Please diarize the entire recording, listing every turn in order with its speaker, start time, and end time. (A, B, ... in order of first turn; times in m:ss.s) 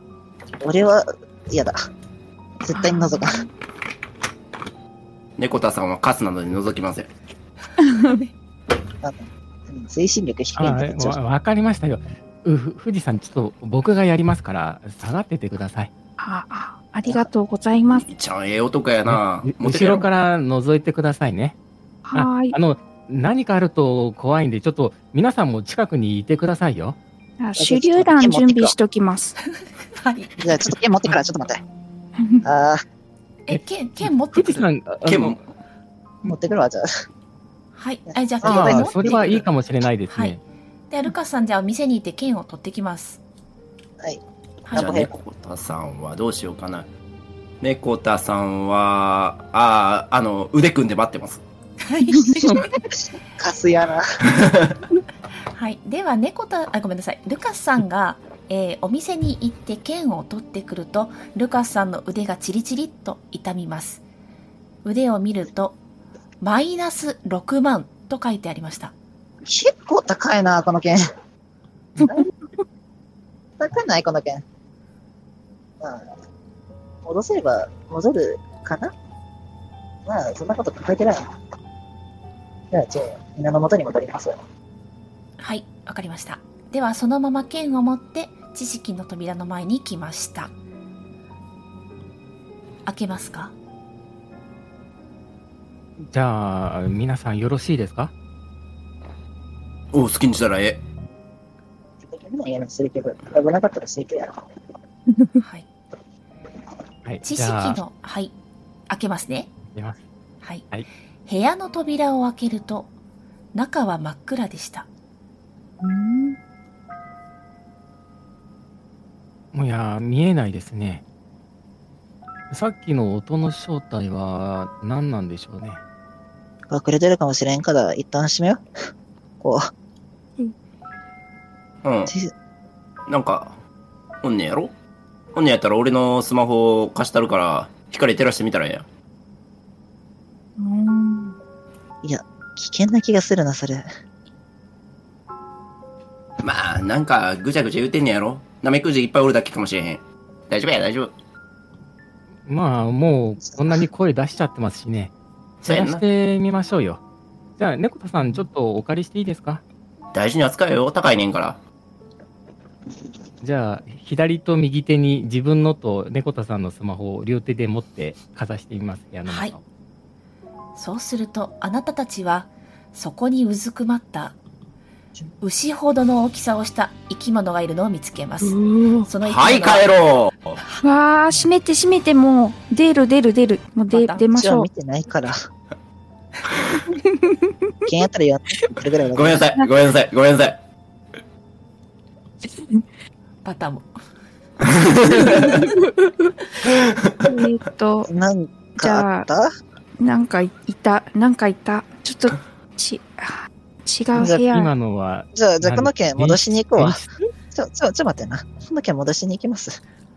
0:00.6-0:01.8 A
0:02.6-0:03.4 A
0:02.8-0:03.4 B
0:05.4-0:07.1 C
0:07.8-0:08.2 B
0:08.0-0:08.3 D
0:09.0-0:11.2 A
0:10.6-0:15.9 E
0:16.2-0:18.1 B
0:17.8-0:20.1 C
0:19.1-0:21.6 E
0:22.0-0:22.6 B
0:22.1-0:27.0 E
0:27.4-0:29.4 B
0:27.6-0:28.8 A
0:29.9-0:30.6 D
0:30.4-0:31.6 A
0:32.2-0:32.5 B
0:32.4-0:32.8 A
0:33.5-0:34.6 D
0:33.5-0:35.4 E
0:35.0-0:35.4 C
0:36.3-0:36.9 A
0:37.8-0:39.5 D
0:38.4-0:39.1 A
0:38.4-0:40.4 E
0:40.1-0:43.2 D
0:44.0-0:45.1 A
0:44.7-0:45.1 D
0:44.7-0:46.9 C
0:47.6-0:51.4 C
0:51.8-0:52.7 D
0:52.3-0:52.5 B
0:53.4-0:54.0 A
0:54.4-0:54.8 C
0:55.5-1:04.0 D
1:04.8-1:05.8 D
1:06.4-1:08.9 D
1:09.4-1:11.0 A
1:12.0-1:12.2 B
1:12.0-1:12.3 A
1:13.6-1:14.4 A
1:15.8-1:16.1 A
1:17.0-1:18.9 A
1:20.1-1:21.3 A
1:22.7-1:24.4 A
1:25.4-1:30.5 D
1:32.9-1:33.5 D
1:36.0-1:38.1 E
1:39.9-1:40.8 C
1:42.0-1:44.5 A
1:45.4-1:45.7 D
1:47.1-1:47.8 E
1:47.2-1:48.4 D
1:48.9-1:49.5 D
1:49.8-1:50.0 E
1:50.4-1:50.7 D
1:51.3-1:52.9 D
1:53.5-1:54.9 D
1:55.8-1:56.4 B
1:59.5-2:01.0 E
2:02.5-2:05.8 E
2:06.7-2:08.6 A
2:09.4-2:09.7 A
2:11.8-2:12.1 C
2:12.1-2:12.3 A
2:13.1-2:13.6 C
2:14.2-2:14.7 C
2:15.4-2:18.9 C
2:20.6-2:21.4 B
2:22.0-2:23.9 A
2:26.4-2:31.1 C
2:32.5-2:35.1 E
2:33.4-2:33.8 A
2:35.6-2:36.0 C
2:35.7-2:37.0 E
2:37.6-2:39.6 E
2:40.1-2:41.6 C
2:43.4-2:49.6 E
2:49.3-2:49.5 D
2:50.8-2:54.4 D
2:55.4-2:59.9 D
2:58.4-2:59.1 B
2:59.2-3:00.6 C
3:00.8-3:04.7 B
3:03.9-3:04.3 D
3:04.3-3:05.4 A
3:07.0-3:07.4 B
3:07.9-3:09.5 A
3:09.2-3:10.6 C
3:12.4-3:12.8 B
3:13.4-3:13.9 D
3:14.7-3:15.5 C
3:15.3-3:15.7 B
3:16.9-3:17.3 C
3:17.2-3:18.1 B
3:18.1-3:19.5 A
3:18.8-3:19.3 B
3:20.0-3:24.7 B
3:24.1-3:24.4 A
3:24.4-3:27.1 E
3:25.3-3:27.0 A
3:27.5-3:29.8 A